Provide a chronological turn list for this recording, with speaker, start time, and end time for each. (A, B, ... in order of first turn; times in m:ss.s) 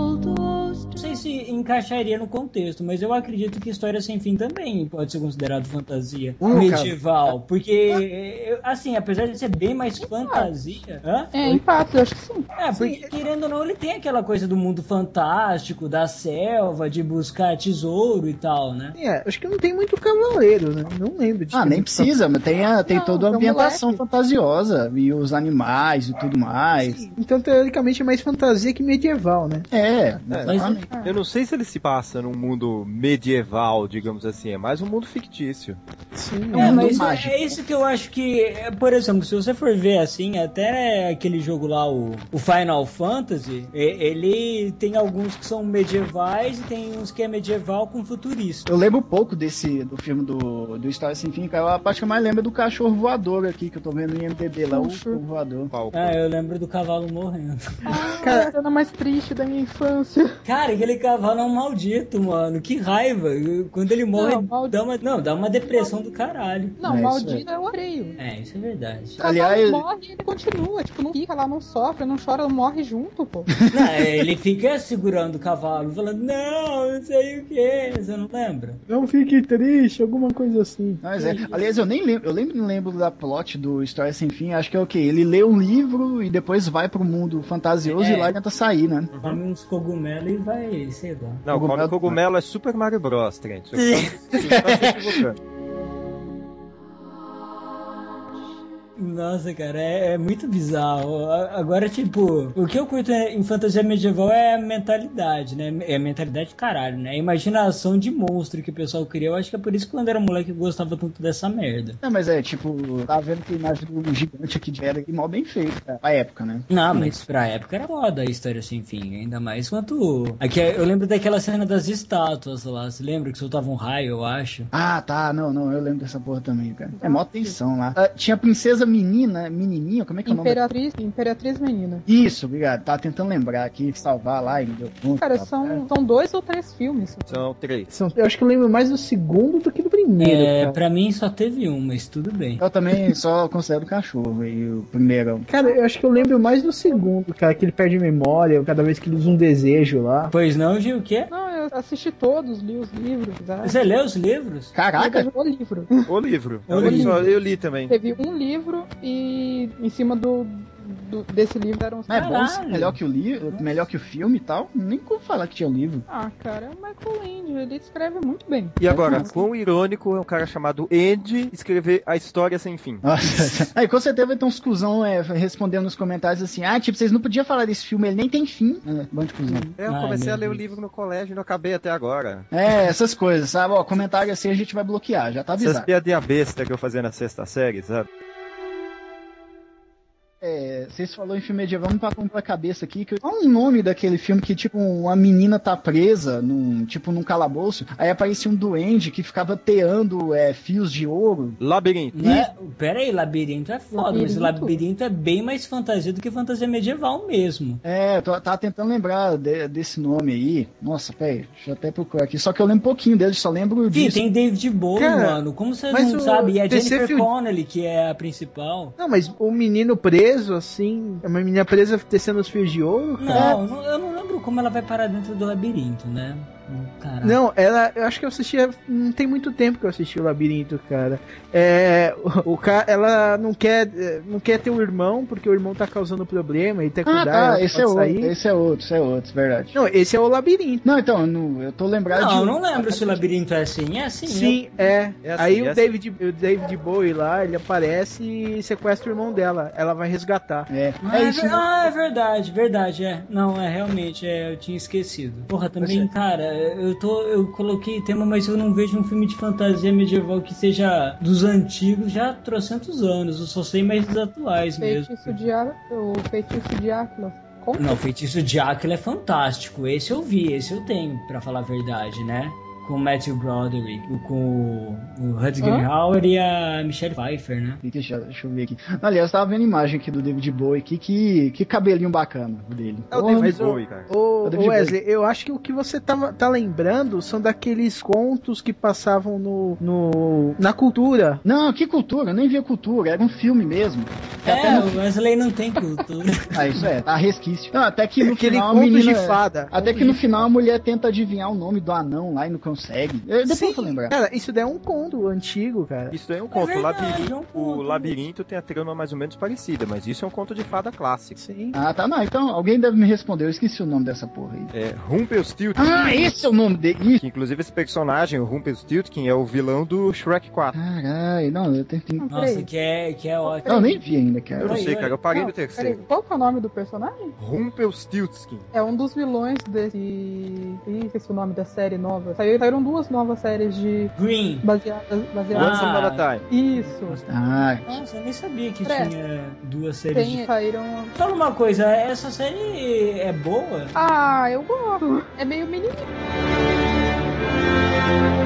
0:00.9-0:11.3 A
0:06.4-0:07.0 B
0:10.0-0:10.5 C
0:11.3-0:12.5 C
0:12.6-0:19.0 A
0:12.8-0:13.1 D
0:19.0-0:22.1 D
0:21.5-0:27.0 B
0:22.9-0:24.0 C
0:26.8-0:29.6 D
0:29.7-0:30.8 B
0:30.3-0:35.8 E
0:30.4-0:30.8 A
0:30.9-0:31.2 C
0:36.1-0:36.8 D
0:36.5-0:37.6 B
0:36.5-0:48.7 A
0:48.6-0:55.7 B
0:54.7-0:55.2 C
0:55.7-0:56.2 E
0:55.9-0:57.8 A
0:57.8-1:00.4 C
0:58.2-0:58.5 D
1:00.4-1:06.8 A
1:04.1-1:04.8 C
1:06.8-1:08.2 C
1:06.8-1:07.4 B
1:08.2-1:09.2 A
1:09.2-1:09.8 B
1:09.2-1:13.5 C
1:13.6-1:14.0 B
1:13.7-1:18.8 A
1:18.9-1:21.0 D
1:21.0-1:29.1 B
1:21.1-1:21.6 C
1:27.8-1:28.3 A
1:29.1-1:29.4 E
1:29.2-1:31.4 A
1:31.4-1:35.4 E
1:31.5-1:32.2 B
1:33.7-1:34.2 A
1:34.4-1:35.2 B
1:39.0-1:52.0 A
1:52.0-1:57.2 B
1:56.7-2:04.7 A
2:04.7-2:10.6 B
2:07.0-2:07.6 C
2:10.2-2:12.0 C
2:12.0-2:15.8 B
2:15.2-2:17.4 C
2:17.3-2:17.9 E
2:17.9-2:20.8 D
2:20.2-2:22.6 A
2:22.6-2:25.5 B
2:25.5-2:30.3 D
2:26.5-2:27.0 C
2:30.3-2:31.3 A
2:31.3-2:33.8 C
2:33.6-2:34.7 A
2:34.7-2:35.3 B
2:35.0-2:36.1 C
2:36.0-2:37.9 E
2:36.7-2:37.3 A
2:36.8-2:42.3 C
2:42.1-2:46.0 B
2:42.1-2:43.0 A
2:46.1-2:49.4 C
2:48.8-2:53.0 E
2:48.8-2:49.3 B
2:53.0-2:59.7 B
2:59.5-2:59.8 C
2:59.8-3:02.5 E
2:59.8-3:00.6 A
3:02.5-3:05.9 B
3:05.6-3:08.1 E
3:10.4-3:21.6 B
3:21.6-3:22.4 E
3:22.1-3:27.8 A
3:22.2-3:22.5 B
3:23.9-3:24.8 C
3:27.8-3:34.2 B
3:33.9-3:39.0 A
3:35.0-3:37.3 D
3:39.0-3:43.6 D
3:43.2-3:47.4 A
3:43.3-3:43.6 B
3:47.2-3:58.3 D
3:57.0-3:59.8 B
3:59.7-4:00.8 D
4:00.8-4:03.3 B
4:02.1-4:04.6 A
4:04.2-4:10.7 D
4:05.2-4:06.0 E
4:10.7-4:11.7 B
4:11.0-4:25.4 A
4:15.8-4:16.1 B
4:24.8-4:28.0 C
4:27.8-4:37.8 A
4:35.6-4:35.9 C
4:37.8-4:43.6 B
4:43.1-4:49.8 D
4:43.4-4:44.1 E
4:44.4-4:45.0 B
4:49.8-4:50.6 B
4:50.6-4:51.4 D
4:51.4-4:55.0 B
4:54.4-4:56.5 A
4:56.5-5:04.1 B
4:58.2-5:00.4 D
5:03.4-5:06.1 D
5:06.1-5:11.4 E
5:06.5-5:08.2 A
5:11.4-5:11.8 D
5:11.7-5:14.7 B
5:14.7-5:16.3 E
5:15.8-5:17.2 B
5:17.2-5:20.8 E
5:20.7-5:22.2 B
5:22.2-5:22.7 C
5:22.3-5:24.0 A
5:23.4-5:23.8 C
5:23.6-5:24.8 B
5:24.6-5:25.2 A
5:24.6-5:26.0 E
5:25.3-5:27.3 C
5:27.4-5:28.7 E
5:28.7-5:35.8 C
5:34.1-5:34.6 A
5:35.5-5:36.4 E
5:35.5-5:36.3 A
5:36.5-5:37.2 C
5:36.8-5:40.5 A
5:37.3-5:38.0 B
5:38.8-5:39.1 C
5:40.1-5:41.1 C
5:41.2-5:43.9 A
5:43.9-5:46.1 C